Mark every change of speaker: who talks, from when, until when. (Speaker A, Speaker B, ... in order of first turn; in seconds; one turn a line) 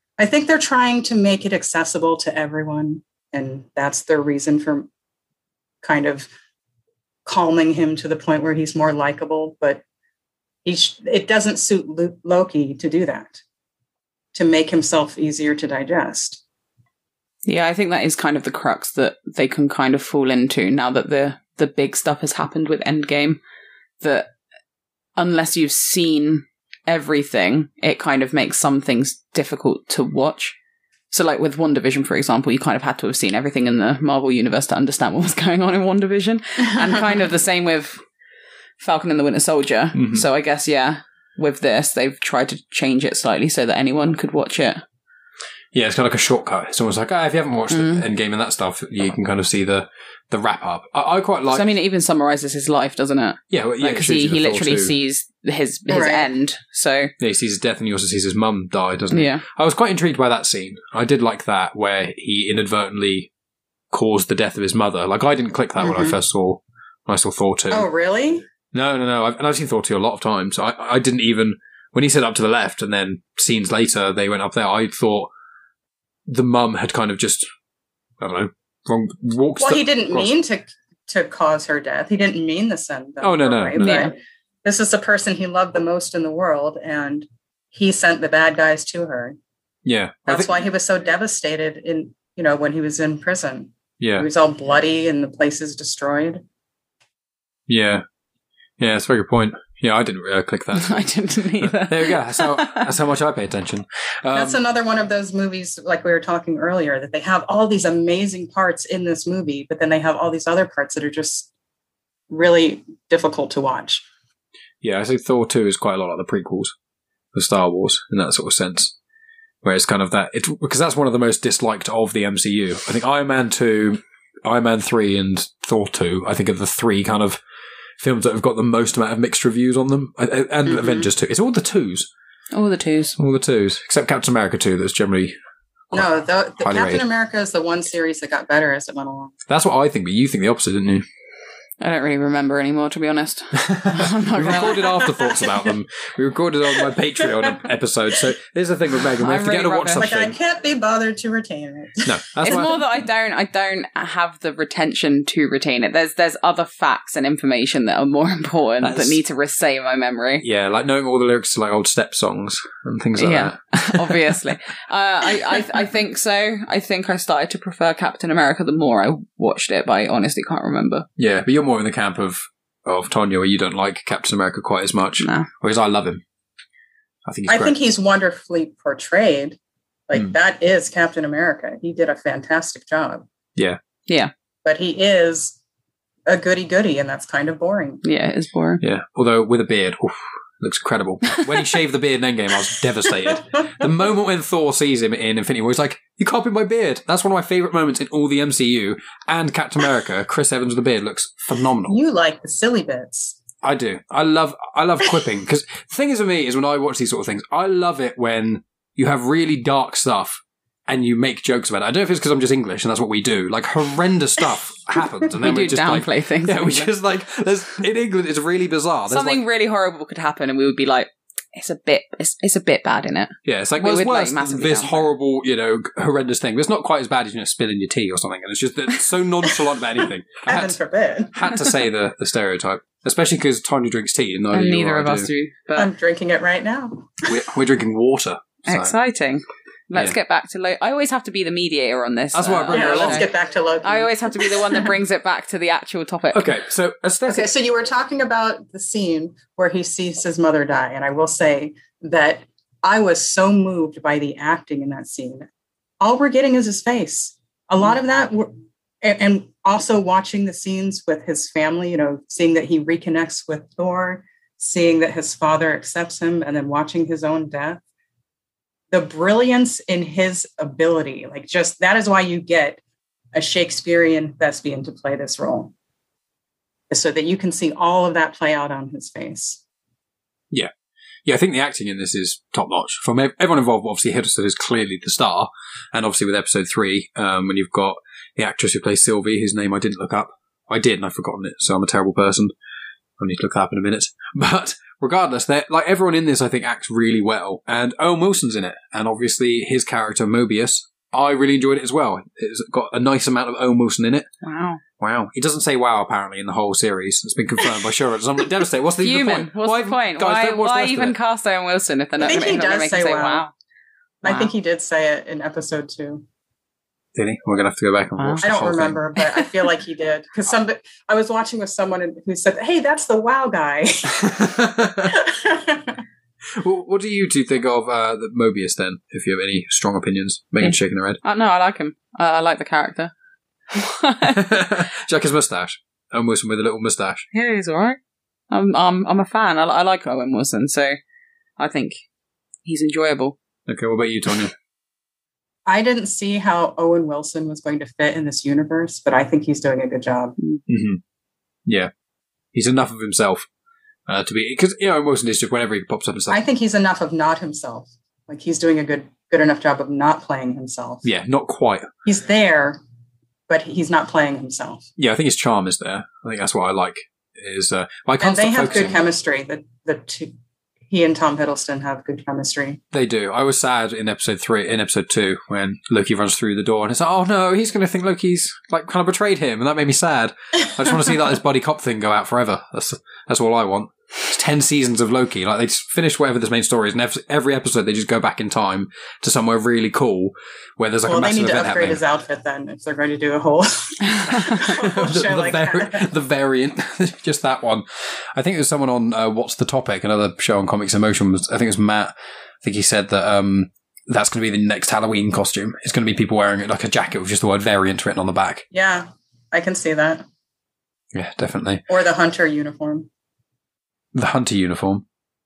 Speaker A: 0.2-4.9
Speaker A: 5.8-6.3
Speaker A: 7.2-9.8
Speaker A: 10.6-13.4
Speaker A: 14.3-16.4
Speaker B: 17.4-23.4
Speaker B: 24.0-24.3
Speaker B: 25.1-30.6
Speaker B: 31.1-38.0
Speaker B: 38.8-44.8
Speaker C: 39.9-40.2
Speaker C: 45.7-51.6
Speaker B: 47.7-48.0
Speaker B: 51.5-57.1
Speaker C: 53.5-54.9
Speaker A: 55.9-56.3
Speaker C: 57.2-63.3
Speaker B: 59.1-59.4
Speaker C: 63.9-67.8
Speaker A: 65.8-66.1
Speaker A: 67.7-68.4
Speaker C: 68.7-75.3
Speaker C: 76.3-77.5
Speaker C: 78.2-80.3
Speaker A: 79.6-84.1
Speaker C: 83.2-84.1
Speaker B: 83.8-84.1
Speaker A: 84.6-89.4
Speaker C: 89.8-90.5
Speaker A: 90.3-96.4
Speaker C: 94.0-94.2
Speaker C: 97.7-98.0
Speaker C: 98.8-104.6
Speaker B: 100.7-102.9
Speaker A: 104.3-111.5
Speaker A: 112.3-114.0
Speaker C: 114.8-116.7
Speaker C: 117.3-118.9
Speaker C: 119.6-127.4
Speaker C: 128.0-132.1
Speaker A: 130.7-131.1
Speaker B: 132.5-133.2
Speaker C: 133.2-135.3
Speaker A: 135.9-139.3
Speaker C: 136.6-137.0
Speaker C: 139.5-141.0
Speaker B: 141.8-145.1
Speaker C: 143.5-150.3
Speaker A: 144.9-145.4
Speaker B: 149.2-150.1
Speaker A: 149.9-152.6
Speaker C: 152.0-152.7
Speaker B: 152.4-160.4
Speaker C: 158.8-159.2
Speaker C: 160.4-164.4
Speaker B: 163.2-171.1
Speaker C: 171.2-176.2
Speaker B: 175.2-175.5
Speaker C: 177.2-177.7
Speaker A: 177.5-179.6
Speaker A: 180.1-183.2
Speaker A: 184.6-185.6
Speaker A: 186.3-188.0
Speaker B: 188.0-188.8
Speaker C: 188.8-202.0
Speaker A: 201.9-203.4
Speaker C: 203.6-219.4
Speaker B: 215.4-216.9
Speaker B: 219.1-225.1
Speaker C: 223.4-230.8
Speaker A: 230.4-231.6
Speaker C: 231.3-235.3
Speaker B: 234.5-235.9
Speaker A: 235.8-237.2
Speaker C: 237.2-238.9
Speaker B: 238.7-243.3
Speaker C: 242.3-243.3
Speaker A: 242.7-244.8
Speaker B: 243.8-246.5
Speaker C: 246.3-247.5
Speaker A: 247.3-255.5
Speaker A: 256.0-267.8
Speaker A: 268.9-272.8
Speaker A: 273.3-275.7
Speaker A: 276.9-279.6
Speaker C: 281.2-292.5
Speaker C: 293.2-304.3
Speaker B: 304.4-304.8
Speaker C: 305.0-311.1
Speaker B: 309.0-313.5
Speaker A: 312.2-313.4
Speaker A: 314.2-316.2
Speaker B: 314.2-314.5
Speaker C: 317.1-319.0
Speaker B: 318.2-318.4
Speaker A: 318.4-326.0
Speaker C: 324.2-325.1
Speaker C: 326.5-331.2
Speaker B: 330.6-333.1
Speaker B: 333.7-334.8
Speaker C: 334.3-337.2
Speaker B: 337.3-338.0
Speaker B: 338.5-341.0
Speaker B: 341.6-342.0
Speaker B: 342.6-343.4
Speaker C: 343.7-344.5
Speaker A: 345.7-350.4
Speaker C: 350.7-351.0
Speaker C: 351.6-351.9
Speaker C: 352.5-353.5
Speaker C: 354.1-356.4
Speaker A: 356.3-361.1
Speaker C: 361.0-361.9
Speaker A: 362.0-362.8
Speaker A: 363.5-364.9
Speaker C: 365.0-369.0
Speaker A: 368.2-370.3
Speaker A: 370.9-372.8
Speaker C: 372.9-392.0
Speaker A: 391.1-396.1
Speaker C: 394.3-408.6
Speaker A: 408.7-410.2
Speaker C: 411.1-411.8
Speaker A: 411.9-413.1
Speaker C: 414.1-415.0